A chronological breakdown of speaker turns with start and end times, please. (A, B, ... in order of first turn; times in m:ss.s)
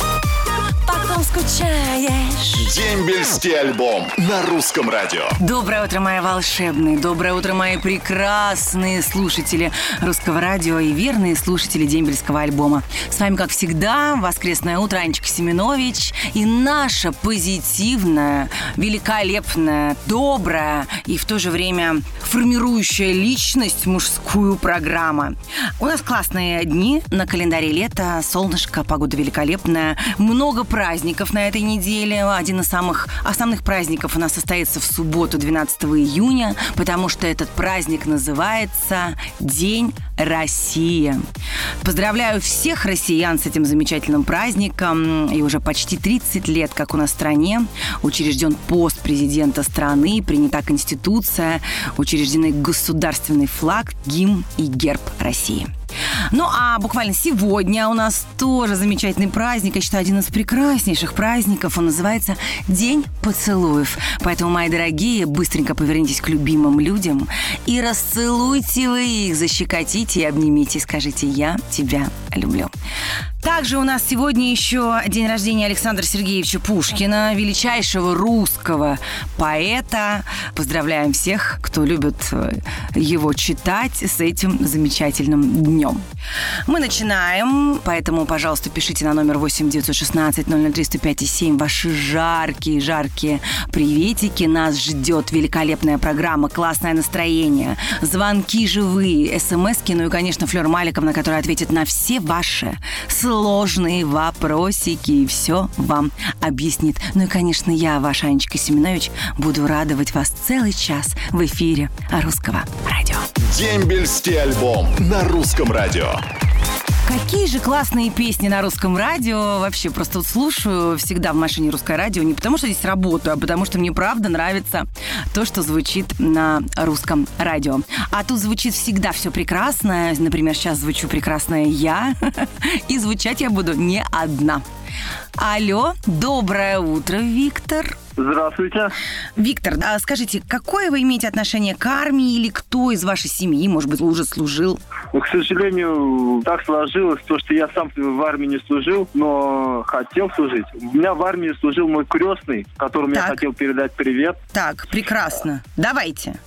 0:00.9-0:02.6 A
0:02.6-0:05.3 B
0:05.4-0:41.2 A
0:41.8-0:55.7 A
0:56.3-1:12.7 A
1:13.4-1:26.0 A
1:26.7-1:53.2 A
1:53.5-1:56.2 B
1:57.0-2:14.6 A
2:15.4-2:18.0 A
2:18.2-2:18.9 C
2:19.4-2:24.8 A
2:25.1-2:34.4 C
2:33.1-2:33.4 A
2:34.5-2:36.4 A